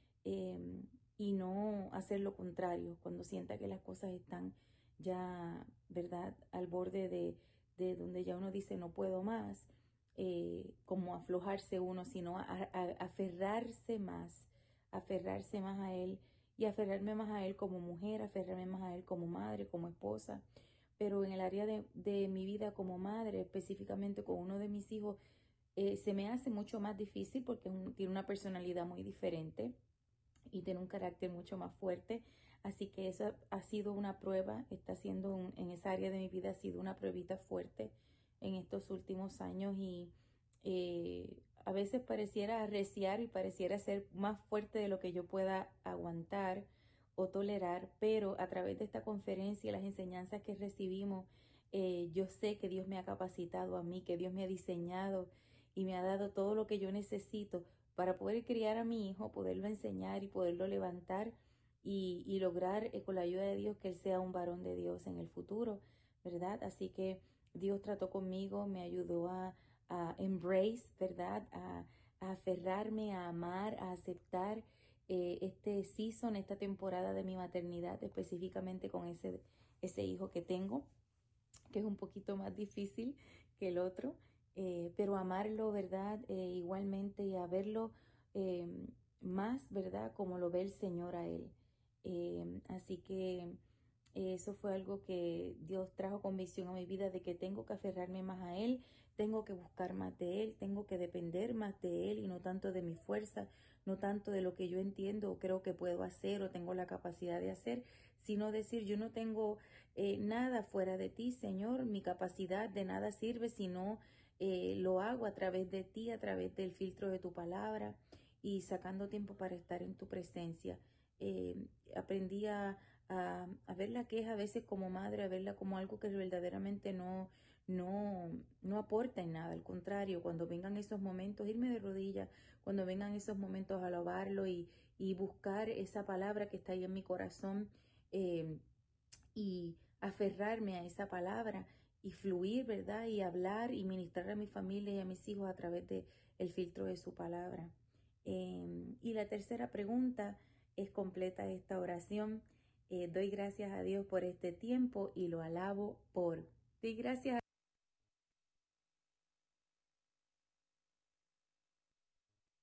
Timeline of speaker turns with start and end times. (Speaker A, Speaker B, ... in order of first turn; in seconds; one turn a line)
Speaker A: 0.2-20.4
Speaker A: 21.0-25.2
Speaker A: 25.8-29.8
Speaker A: 30.5-80.9
Speaker A: 81.7-93.6
Speaker A: 94.2-138.6
Speaker A: 139.3-147.7
Speaker A: 148.2-157.4